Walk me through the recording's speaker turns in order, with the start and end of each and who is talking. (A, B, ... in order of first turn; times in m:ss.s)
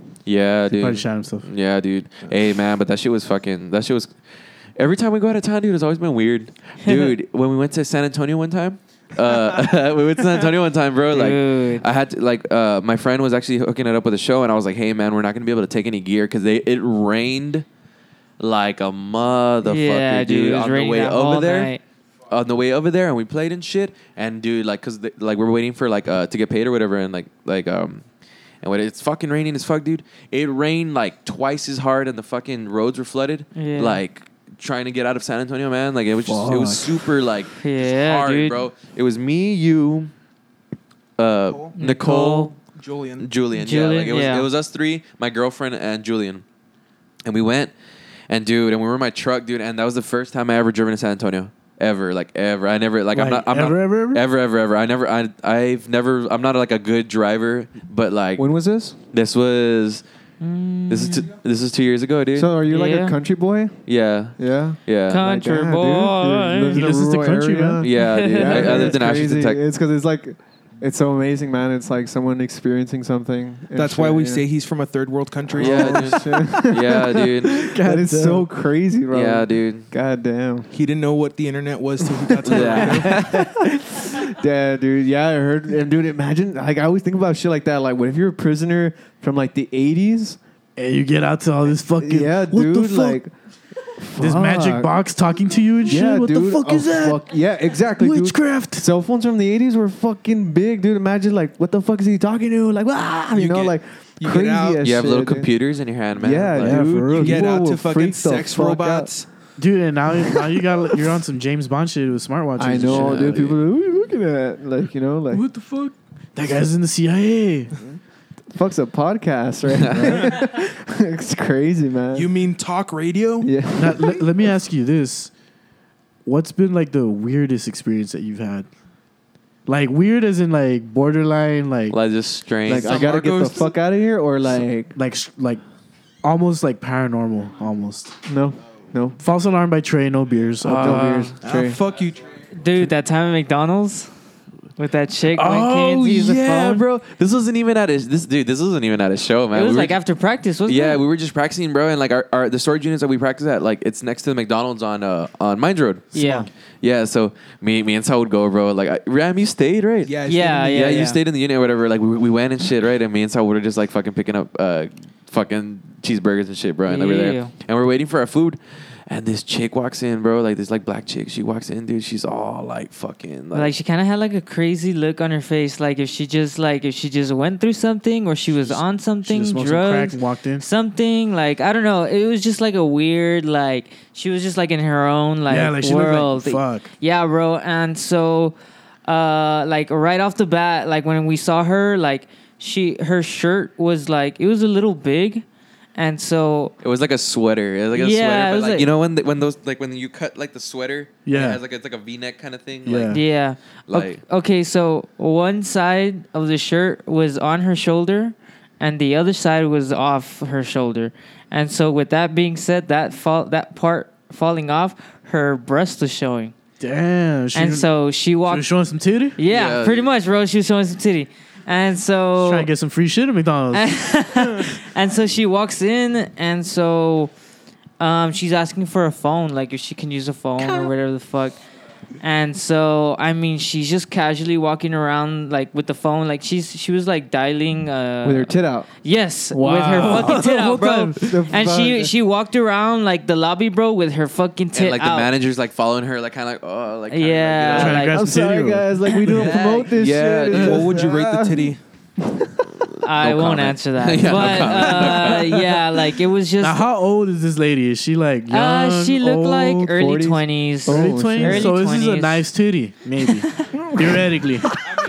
0:00.2-0:04.1 A
0:00.7-0:01.5 B
0:04.8-0:17.6 A
0:06.8-0:07.1 C
0:11.1-0:11.8 C
0:18.4-0:21.7 A
0:19.6-0:21.8 C
0:22.3-0:28.0 A
0:28.6-0:40.1 A
0:33.5-0:34.0 C
0:36.2-0:37.1 B
0:37.6-0:38.6 C
0:41.2-0:42.6 A
0:41.5-0:41.7 D
0:41.8-0:42.5 C
0:42.6-0:43.3 D
0:43.2-0:46.4 A
0:43.5-0:44.5 C
0:47.2-0:47.7 A
0:48.3-0:58.5 A
0:53.1-0:54.2 B
0:58.4-0:59.0 E
0:59.1-1:00.0 A
1:00.4-1:01.3 C
1:00.9-1:02.5 A
1:02.3-1:03.8 E
1:02.7-1:03.2 C
1:03.9-1:05.2 A
1:04.4-1:14.4 E
1:05.1-1:06.8 C
1:06.7-1:07.9 B
1:07.8-1:09.6 A
1:08.0-1:08.6 C
1:13.7-1:16.2 D
1:15.5-1:20.7 E
1:15.6-1:17.7 A
1:17.5-1:18.4 B
1:19.1-1:19.9 A
1:20.7-1:23.3 D
1:22.1-1:30.4 E
1:22.4-1:23.4 A
1:30.8-1:33.2 B
1:32.0-1:33.3 E
1:34.0-1:34.9 E
1:34.2-1:38.9 B
1:35.8-1:45.5 E
1:43.3-1:44.8 D
1:44.8-1:46.8 A
1:46.2-1:49.1 E
1:46.6-1:47.6 B
1:47.0-1:49.3 D
1:49.6-1:53.6 B
1:52.6-1:55.4 E
1:52.8-1:53.5 A
1:55.3-1:57.7 B
1:58.5-2:02.3 E
2:02.1-2:03.5 D
2:03.4-2:04.2 E
2:03.8-2:05.3 B
2:06.2-2:08.7 B
2:09.6-2:12.0 B
2:11.9-2:13.5 A
2:12.6-2:15.0 E
2:12.8-2:13.6 D
2:14.9-2:15.6 B
2:16.2-2:18.1 B
2:18.2-2:19.2 E
2:19.2-2:21.7 B
2:20.6-2:21.4 A
2:20.7-2:21.8 E
2:21.4-2:22.4 D
2:22.5-2:24.1 C
2:24.8-2:26.8 C
2:25.3-2:30.0 A
2:29.5-2:31.0 C
2:30.6-2:36.2 A
2:36.1-2:36.5 C
2:36.8-2:40.1 A
2:40.0-2:41.0 D
2:40.2-2:41.2 C
2:40.6-2:53.7 A
2:46.9-2:47.5 C
2:53.5-3:15.4 C
2:58.6-3:00.6 B
3:05.5-3:06.9 B
3:16.0-3:16.7 C
3:16.8-3:23.2 A
3:17.9-3:18.9 C
3:21.2-3:21.6 B
3:22.8-3:23.2 B
3:23.1-3:36.5 C
3:23.9-3:24.2 A
3:36.8-3:37.9 B
3:37.5-3:38.7 C
3:38.4-3:39.4 B
3:39.4-3:42.7 C
3:39.5-3:40.1 A
3:42.4-3:44.2 B
3:43.7-3:47.3 C
3:48.0-3:51.6 C
3:52.2-4:05.3 C
3:58.2-3:58.9 E
3:59.5-4:00.5 E
3:59.6-4:01.4 B
4:01.2-4:02.1 E
4:04.7-4:08.0 A
4:07.1-4:08.2 C
4:07.7-4:08.9 B
4:08.0-4:12.6 E
4:09.2-4:10.9 A
4:10.5-4:11.8 D
4:13.0-4:16.8 C
4:13.1-4:15.6 A
4:16.6-4:19.9 B
4:18.5-4:22.4 C
4:19.8-4:21.7 E
4:20.9-4:24.8 B
4:23.7-4:24.3 E